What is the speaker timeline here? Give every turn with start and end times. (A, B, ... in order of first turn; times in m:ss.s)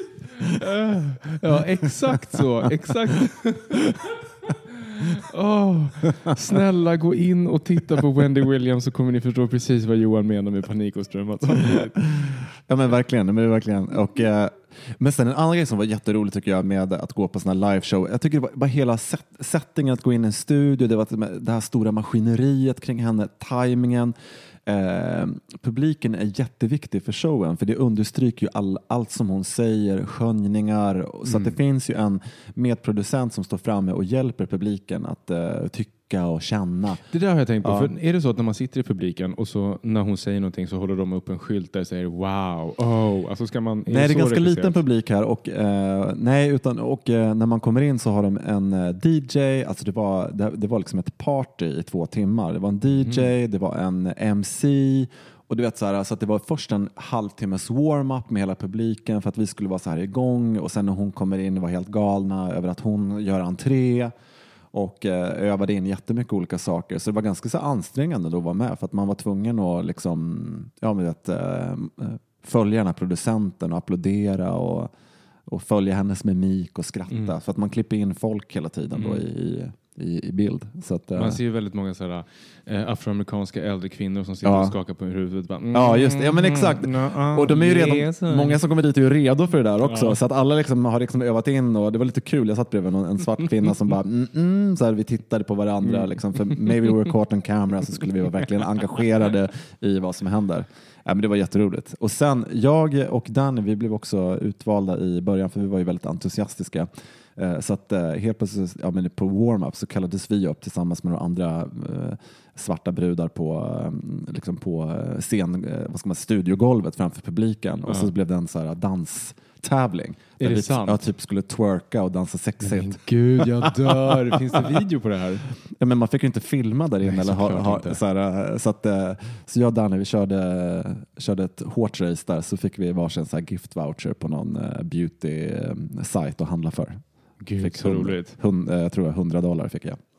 0:00.4-0:12.4 A
0:11.6-0:37.0 B
0:31.2-0:31.6 A
0:37.1-0:44.8 A
0:37.6-0:37.9 B
0:43.9-1:04.1 B
0:52.9-0:53.3 A
1:04.7-1:14.9 B
1:15.5-1:21.4 B
1:18.9-1:19.2 A
1:21.1-1:28.6 A
1:24.4-1:24.8 B
1:25.7-2:04.7 B
1:29.8-1:30.2 A
1:35.8-1:36.8 A
1:57.9-1:58.1 A
2:00.4-2:01.0 A
2:02.6-2:05.5 A
2:05.6-2:17.0 B
2:07.0-2:08.0 A
2:17.4-2:18.4 A
2:17.6-2:20.0 B